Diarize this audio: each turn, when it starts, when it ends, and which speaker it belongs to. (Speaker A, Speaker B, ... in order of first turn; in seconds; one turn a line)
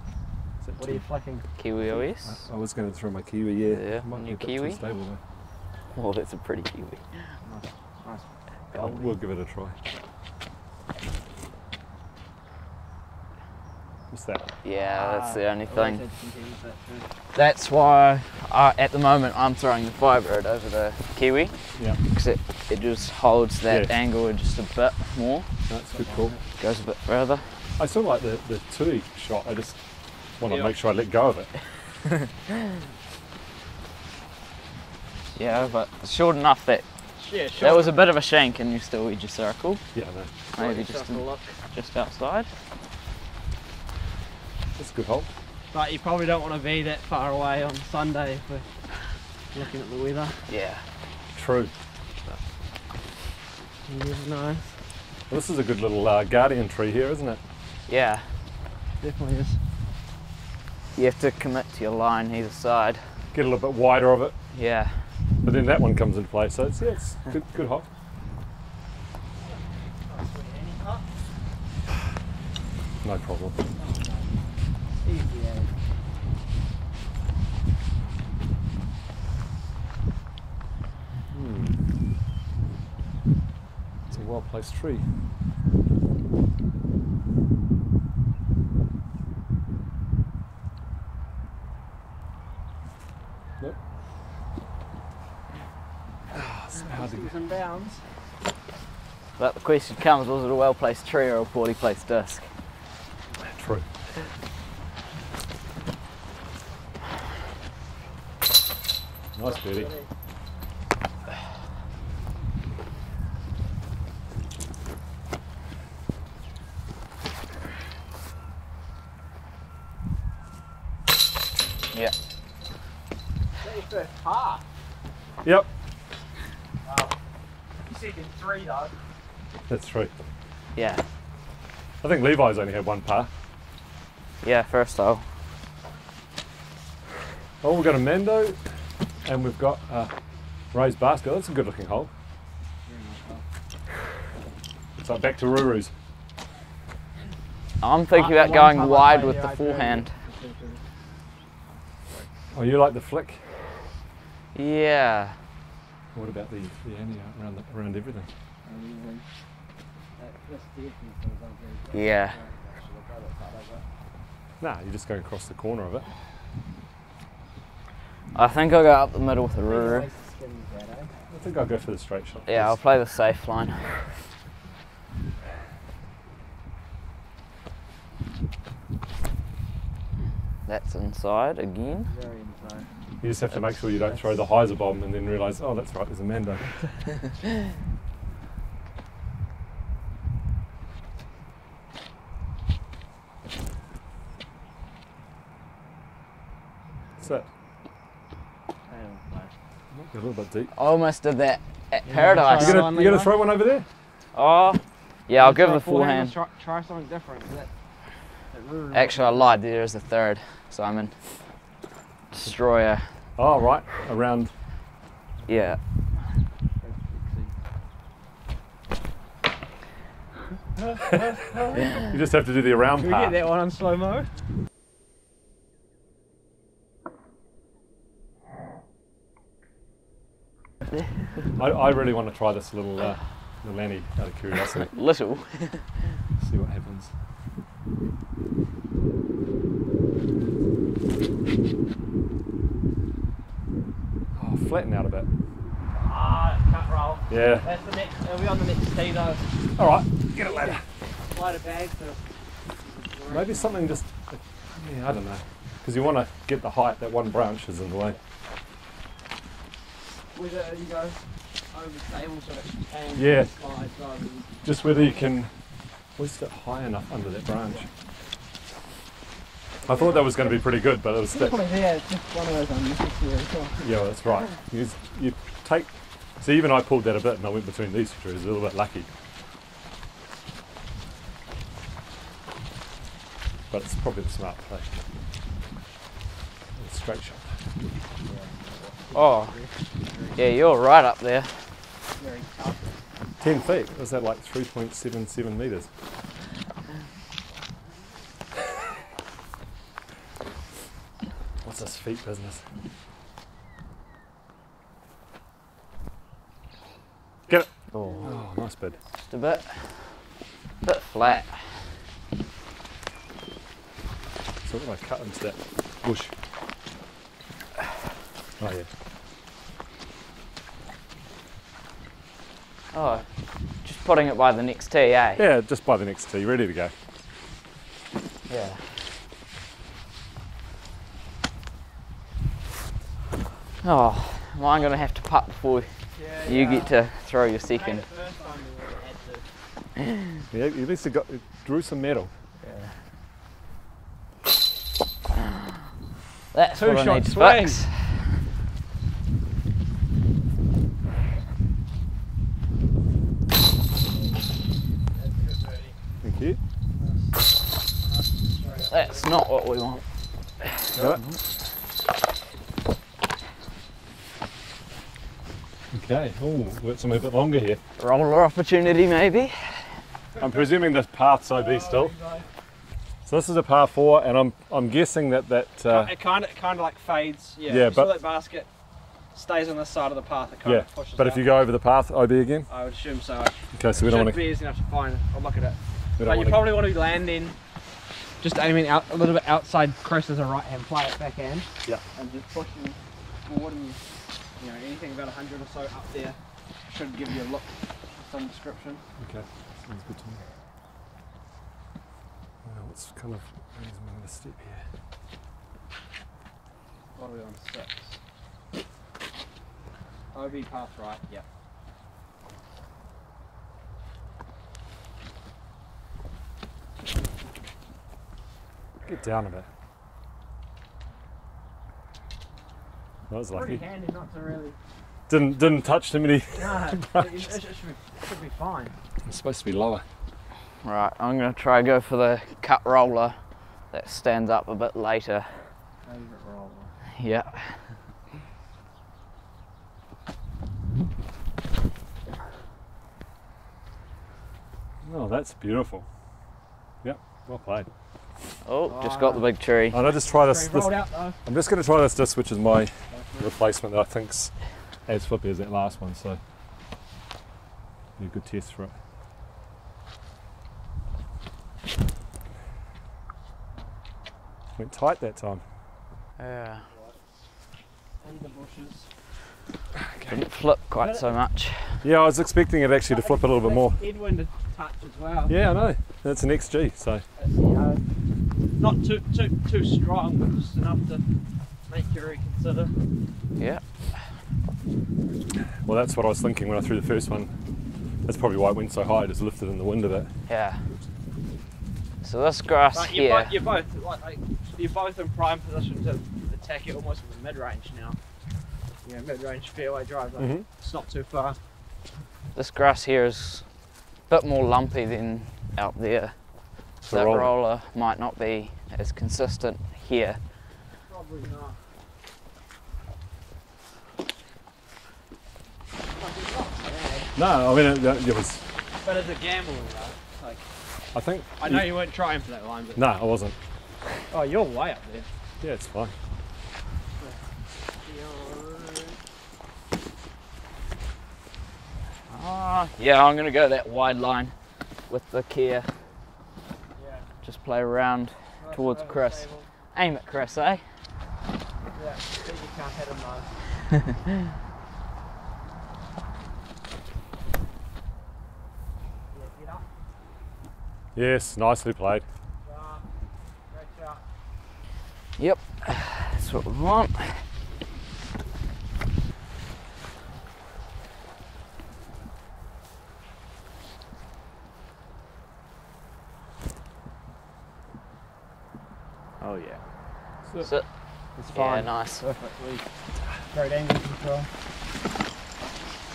Speaker A: 0.6-1.0
Speaker B: 0.8-1.5
Speaker C: 1.6-2.3
Speaker A: 2.2-5.2
Speaker C: 3.7-4.8
Speaker C: 5.9-7.0
Speaker B: 7.4-9.1
Speaker A: 8.7-9.8
Speaker A: 14.1-14.4
Speaker C: 14.6-16.0
Speaker B: 14.7-17.1
Speaker C: 17.3-25.4
Speaker A: 25.7-26.3
Speaker B: 26.0-26.4
Speaker C: 26.6-27.5
Speaker A: 27.8-29.8
Speaker A: 30.4-31.5
Speaker B: 30.4-30.7
Speaker C: 35.3-36.9
Speaker B: 37.2-38.0
Speaker C: 37.6-39.8
Speaker A: 39.9-40.3
Speaker B: 40.6-41.5
Speaker C: 40.6-42.5
Speaker A: 44.8-45.3
Speaker B: 45.7-48.7
Speaker B: 49.5-50.4
Speaker C: 50.5-50.8
Speaker A: 51.3-51.7
Speaker B: 53.9-54.7
Speaker A: 55.3-57.4
Speaker C: 57.9-58.3
Speaker B: 59.0-59.6
Speaker C: 61.0-63.0
Speaker A: 63.3-64.3
Speaker C: 64.5-65.0
Speaker A: 65.4-67.9
Speaker B: 69.4-71.1
Speaker A: 73.0-73.6
Speaker B: 73.7-74.3
Speaker B: 75.0-75.7
Speaker A: 81.3-81.8
Speaker A: 84.1-85.0
Speaker A: 96.3-97.3
Speaker B: 96.8-98.0
Speaker C: 99.4-102.5
Speaker A: 103.4-103.8
Speaker A: 109.3-109.9
Speaker B: 109.4-110.1
Speaker B: 123.6-124.6
Speaker A: 125.4-125.7
Speaker B: 126.8-127.1
Speaker B: 127.8-128.9
Speaker A: 129.7-130.1
Speaker C: 130.7-131.0
Speaker A: 132.0-133.3
Speaker C: 134.4-135.2
Speaker A: 137.6-138.6
Speaker A: 139.2-140.1
Speaker A: 140.7-142.1
Speaker B: 142.8-143.4
Speaker A: 145.0-145.9
Speaker C: 147.8-150.1
Speaker B: 148.1-150.8
Speaker A: 152.5-153.4
Speaker C: 154.5-155.3
Speaker A: 156.1-158.3
Speaker B: 158.6-159.2
Speaker B: 160.2-163.8
Speaker C: 161.9-162.4
Speaker A: 164.6-166.1
Speaker C: 168.3-170.1
Speaker B: 169.6-171.1
Speaker A: 171.3-172.7
Speaker C: 172.5-174.0
Speaker C: 180.7-182.1
Speaker B: 182.0-182.9
Speaker A: 183.2-186.6
Speaker A: 197.2-197.5
Speaker B: 198.9-199.5
Speaker A: 199.9-200.7
Speaker C: 200.7-202.9
Speaker B: 202.1-203.3
Speaker A: 202.6-203.9
Speaker C: 204.3-206.4
Speaker B: 205.4-207.7
Speaker B: 208.5-209.5
Speaker C: 208.9-211.1
Speaker C: 212.3-213.1
Speaker A: 213.4-214.5
Speaker C: 215.4-215.8
Speaker B: 216.8-217.5
Speaker B: 220.8-222.1
Speaker A: 222.0-223.4
Speaker B: 223.0-224.3
Speaker A: 231.6-234.9
Speaker C: 234.9-235.9
Speaker A: 236.4-237.1
Speaker A: 244.3-245.3
Speaker B: 245.9-249.5
Speaker A: 247.3-247.7
Speaker A: 249.8-250.8
Speaker B: 251.2-252.2
Speaker B: 252.8-253.9
Speaker A: 253.3-258.2
Speaker B: 260.3-264.5
Speaker A: 263.1-263.5
Speaker A: 264.6-265.5
Speaker A: 266.1-267.9
Speaker A: 269.8-271.6
Speaker B: 269.9-270.4
Speaker B: 271.3-273.9
Speaker A: 273.8-279.1
Speaker A: 283.7-284.9
Speaker A: 286.8-287.5
Speaker B: 288.2-290.4
Speaker C: 289.1-289.5
Speaker C: 290.4-291.5
Speaker B: 292.2-292.9
Speaker A: 293.4-295.9
Speaker A: 301.6-302.6
Speaker C: 307.9-308.3
Speaker B: 308.0-309.6
Speaker A: 308.2-309.0
Speaker C: 309.3-309.9
Speaker C: 310.8-311.6
Speaker A: 314.6-316.3
Speaker A: 318.6-318.9
Speaker C: 322.9-323.2
Speaker C: 323.8-325.4
Speaker A: 325.4-326.9
Speaker C: 328.5-328.8
Speaker C: 333.8-335.9
Speaker B: 336.1-336.9
Speaker C: 336.4-338.0
Speaker B: 337.6-339.4
Speaker A: 340.5-342.3
Speaker B: 342.6-342.9
Speaker C: 346.5-348.2
Speaker B: 346.7-347.8
Speaker B: 355.1-355.9
Speaker A: 356.2-356.6
Speaker B: 357.0-357.4
Speaker B: 358.0-359.3
Speaker C: 358.9-360.0
Speaker A: 360.9-361.2
Speaker A: 365.9-367.8
Speaker C: 368.0-369.9
Speaker A: 370.4-372.1
Speaker B: 371.5-372.5
Speaker A: 373.2-376.1
Speaker B: 375.9-378.7
Speaker A: 377.6-378.2
Speaker B: 379.3-381.4
Speaker A: 380.6-382.7
Speaker B: 382.7-387.6
Speaker A: 383.7-384.5
Speaker A: 386.2-386.8
Speaker B: 388.4-394.0
Speaker B: 394.6-399.0
Speaker A: 399.2-400.4
Speaker A: 402.6-404.9
Speaker B: 407.1-408.2
Speaker B: 410.3-411.4
Speaker A: 419.0-419.7
Speaker A: 423.3-423.8
Speaker B: 423.5-424.8
Speaker A: 425.3-427.5
Speaker B: 426.6-428.9
Speaker A: 429.2-430.0
Speaker C: 430.8-433.4
Speaker C: 433.9-435.5
Speaker B: 436.0-436.9
Speaker C: 437.2-437.7
Speaker A: 445.0-446.1
Speaker A: 447.0-447.9
Speaker C: 448.6-450.0
Speaker B: 448.9-449.5
Speaker A: 449.9-454.5
Speaker B: 450.0-451.4
Speaker B: 453.1-453.5
Speaker A: 455.1-456.4
Speaker A: 458.2-458.9
Speaker A: 464.8-465.6
Speaker C: 466.4-466.9
Speaker B: 466.9-467.2
Speaker B: 468.2-469.1
Speaker A: 469.9-470.4
Speaker C: 470.3-472.0
Speaker B: 471.0-471.3
Speaker A: 472.0-474.0
Speaker B: 473.1-475.5
Speaker A: 475.5-477.2
Speaker B: 477.4-478.0
Speaker B: 478.8-481.2
Speaker B: 481.9-482.9
Speaker A: 485.8-487.5
Speaker A: 488.2-490.3
Speaker C: 490.5-490.8
Speaker C: 492.2-493.5
Speaker B: 492.9-498.2
Speaker B: 499.0-501.6
Speaker A: 500.4-500.6
Speaker C: 502.5-503.6
Speaker C: 504.3-506.3
Speaker A: 507.1-507.5
Speaker C: 507.1-510.4
Speaker B: 511.1-511.8
Speaker B: 516.1-517.3
Speaker A: 517.4-518.6
Speaker B: 519.0-520.6
Speaker A: 521.1-522.0
Speaker B: 521.6-523.0
Speaker A: 523.0-523.5
Speaker B: 524.3-525.3
Speaker A: 525.6-526.1
Speaker B: 528.0-529.2
Speaker C: 532.3-534.5
Speaker C: 535.1-535.9
Speaker B: 536.9-537.3
Speaker C: 537.4-540.8
Speaker B: 538.6-539.7
Speaker B: 541.9-543.6
Speaker B: 549.3-549.9
Speaker A: 551.1-552.2
Speaker B: 552.6-553.1
Speaker B: 553.7-554.2
Speaker C: 555.4-557.4
Speaker B: 569.4-569.8
Speaker B: 571.4-572.8
Speaker C: 571.5-572.2
Speaker B: 573.5-574.5